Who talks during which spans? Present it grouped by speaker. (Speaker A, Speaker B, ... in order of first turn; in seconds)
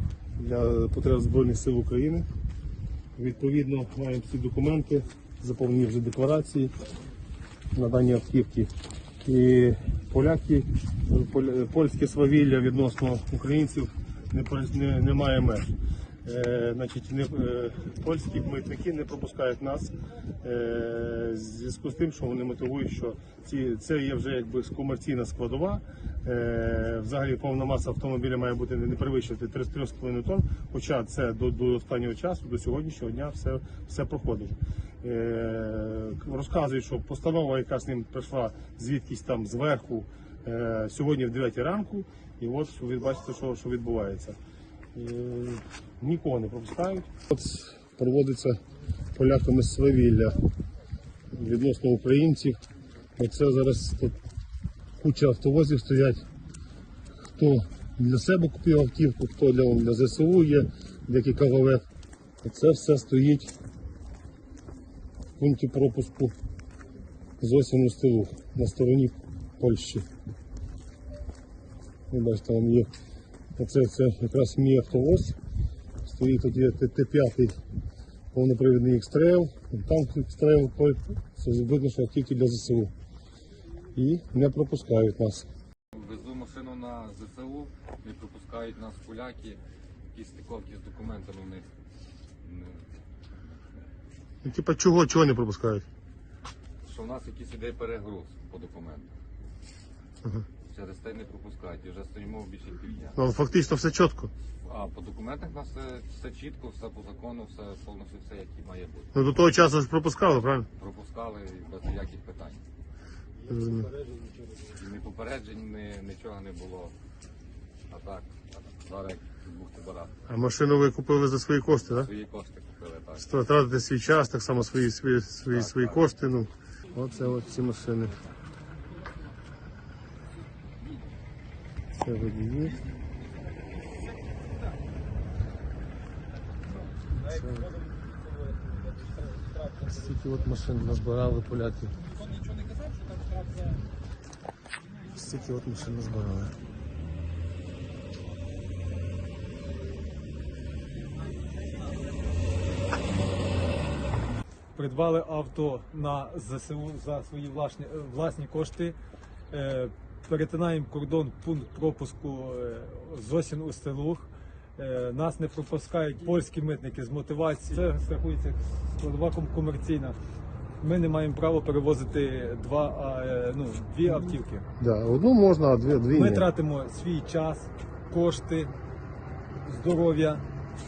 Speaker A: 0.4-2.3, 3.2-6.7, 7.7-8.7, 9.2-44.4, 45.0-48.6, 49.1-50.4, 51.3-52.6, 53.2-54.2, 55.0-56.3, 57.4-61.8, 62.4-63.5, 65.4-66.3, 67.4-70.1, 72.1-72.9, 73.6-75.4, 76.0-77.6, 78.3-82.9, 84.0-85.5, 94.4-95.8, 103.2-104.3, 109.1-110.7, 113.5-113.9, 120.3-122.1, 123.2-128.2, 132.0-132.8, 137.2-137.7, 139.9-142.0, 145.2-146.5, 174.8-176.5
Speaker B: 85.9-89.6, 90.1-91.7, 92.4-92.9, 96.8-99.1, 100.7-103.2, 104.6-109.1, 110.8-112.6, 114.7-116.9, 117.9-120.2, 121.8-123.3, 125.5-126.1
Speaker C: 114.0-114.4, 133.5-134.5, 136.8-140.5, 142.1-143.8, 145.2-145.9, 154.8-159.0, 159.5-170.2, 170.8-174.7, 176.1-178.7, 179.7-180.4